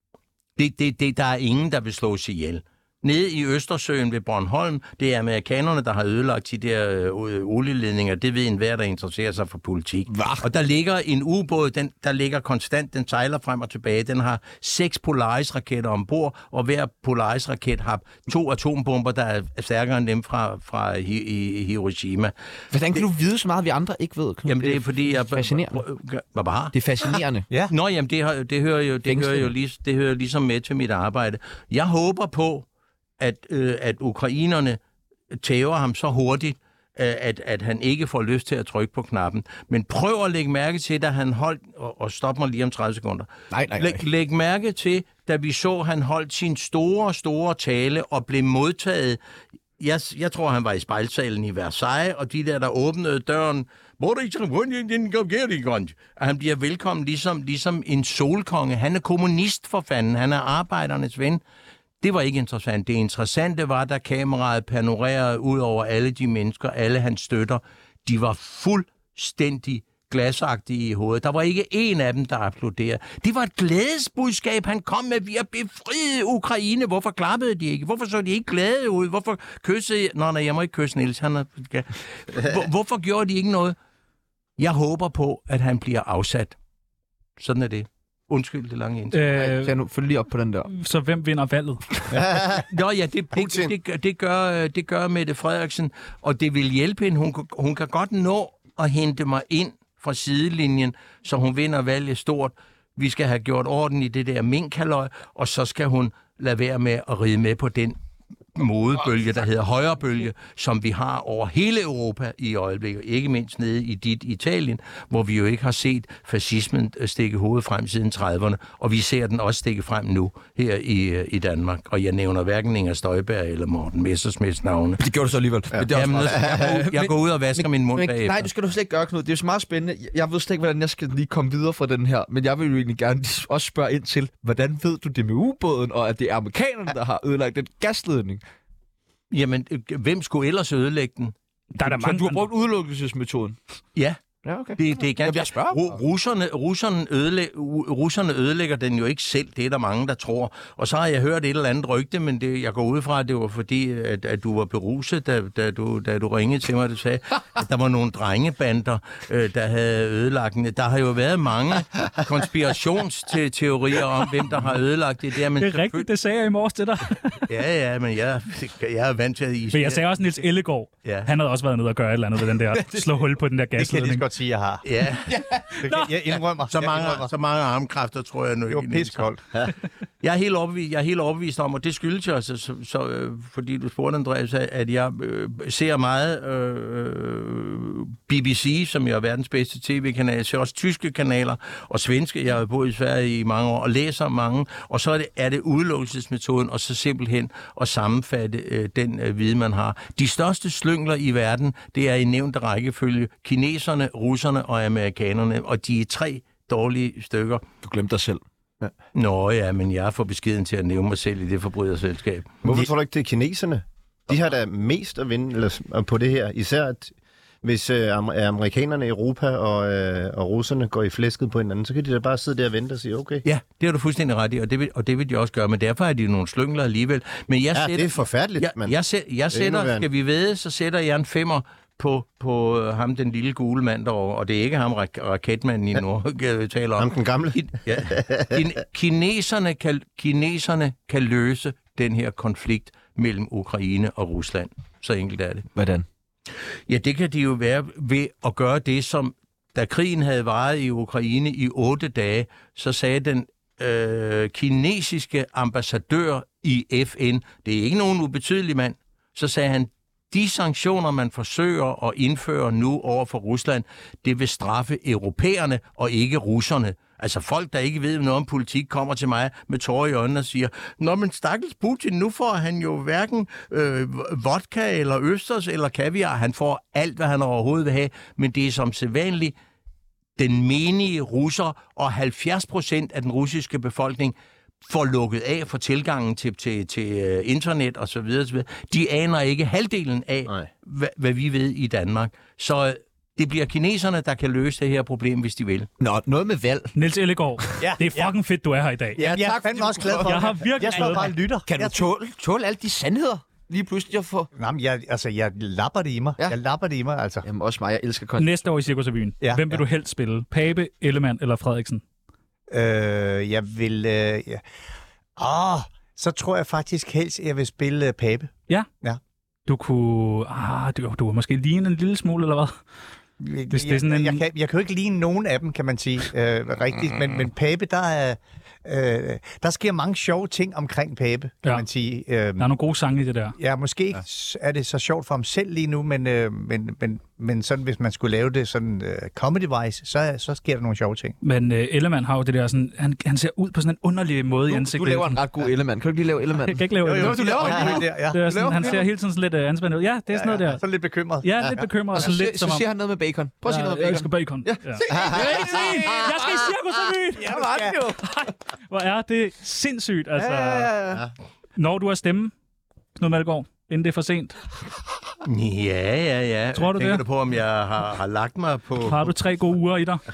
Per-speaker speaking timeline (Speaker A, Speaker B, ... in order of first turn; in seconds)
Speaker A: 0.6-22.3, 24.4-26.7, 27.7-32.6, 33.2-34.8, 35.4-49.2, 49.8-61.4, 62.0-83.8, 84.6-86.5, 87.4-89.2, 92.5-108.0, 108.5-125.0, 125.9-128.5, 139.3-141.3, 143.9-144.2, 144.8-166.1, 167.5-170.1, 171.0-171.3, 174.8-175.6, 176.7-179.3, 180.2-207.6, 209.1-212.6, 223.4-245.7, 246.9-279.5, 280.4-284.3, 284.8-295.9, 365.4-369.3
Speaker B: 22.7-25.8, 26.7-27.5, 29.1-29.5, 43.5-44.0, 89.3-90.7, 125.0-138.4, 141.8-143.6, 144.4-145.8, 175.3-175.6, 207.8-208.4, 245.7-246.1, 296.0-296.9, 299.2-304.5, 307.4-308.6, 344.6-349.0, 352.2-356.7, 357.4-358.2, 360.4-361.3
Speaker C: 89.1-89.8, 90.7-91.8, 141.8-142.5, 165.6-167.4, 169.7-174.2, 296.9-299.3, 300.2-301.3, 308.4-312.0, 319.7-322.7, 323.7-324.4, 332.6-333.5, 341.4-345.4, 346.6-350.8, 351.4-352.9, 353.6-357.6, 358.2-360.9, 361.8-362.5, 363.2-364.6, 366.7-367.2, 369.0-370.2
Speaker D: 92.1-92.7, 93.3-93.7, 212.6-223.4, 227.7-228.9, 229.5-230.0, 237.0-238.6, 355.1-355.4
Speaker E: 173.8-174.8, 175.8-177.3, 178.7-179.4, 297.8-298.3, 299.3-302.0, 304.5-307.4, 309.4-309.8, 312.7-314.6, 315.4-319.2, 323.4-332.7, 333.6-341.4, 347.0-348.9, 350.3-352.2, 357.5-358.0